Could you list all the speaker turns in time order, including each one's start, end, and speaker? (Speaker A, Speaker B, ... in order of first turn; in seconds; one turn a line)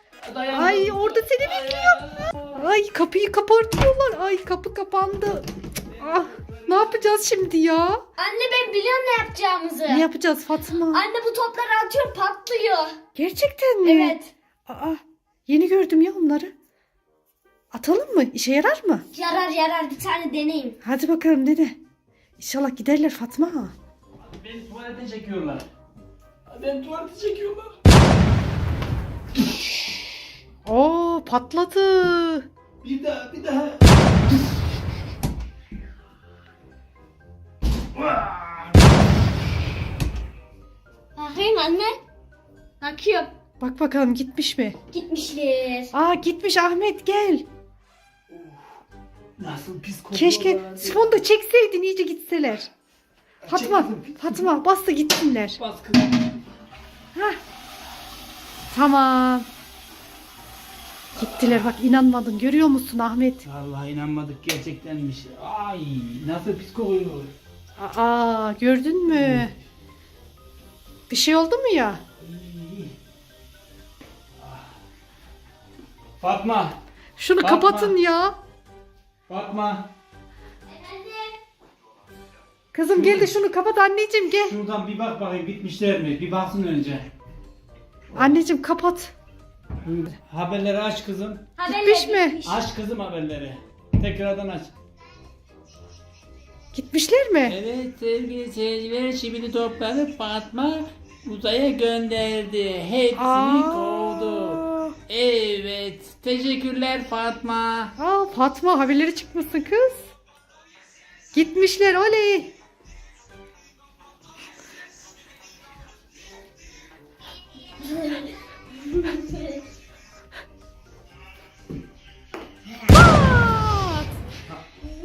Speaker A: 0.2-2.7
Speaker B: 0.5-8.0
Speaker A: 5.9-7.2
Speaker C: 8.2-10.1
Speaker B: 9.9-11.1
Speaker C: 10.9-13.0
Speaker B: 13.2-16.5
Speaker C: 13.8-14.3
Speaker B: 17.7-19.0
Speaker C: 19.1-20.8
Speaker B: 20.8-21.8
Speaker B: 22.4-23.7
Speaker A: 24.2-25.7
Speaker A: 26.5-27.8
Speaker B: 30.6-32.5
Speaker A: 32.8-34.6
Speaker A: 38.0-39.0
Speaker C: 41.1-42.0
Speaker C: 42.8-43.3
Speaker B: 43.6-44.8
Speaker C: 44.9-45.9
Speaker B: 45.9-47.5
Speaker A: 48.3-48.7
Speaker A: 49.4-51.2
Speaker B: 50.1-52.7
Speaker A: 53.4-54.6
Speaker B: 53.5-55.6
Speaker A: 55.5-56.4
Speaker B: 57.1-57.4
Speaker B: 58.7-59.5
Speaker A: 61.1-61.7
Speaker B: 61.2-63.4
Speaker A: 63.5-67.3
Speaker B: 67.8-69.5
Speaker A: 69.1-69.5
Speaker B: 71.1-72.0
Speaker A: 72.2-72.9
Speaker A: 74.4-74.7
Speaker A: 76.2-76.8
Speaker B: 77.2-78.4
Speaker A: 77.4-78.0
Speaker A: 79.3-79.9
Speaker C: 80.7-81.4
Speaker B: 82.7-84.6
Speaker A: 82.9-83.3
Speaker A: 84.4-87.1
Speaker A: 88.1-88.4
Speaker B: 88.2-89.1
Speaker A: 89.8-91.5
Speaker C: 91.6-92.7
Speaker B: 91.7-92.4
Speaker A: 92.5-94.7
Speaker B: 96.7-97.6
Speaker A: 97.5-107.9
Speaker B: 103.2-104.9
Speaker B: 108.0-110.1
Speaker B: 111.3-112.5
Speaker C: 117.8-118.3
Speaker C: 118.8-119.6
Speaker B: 122.9-124.1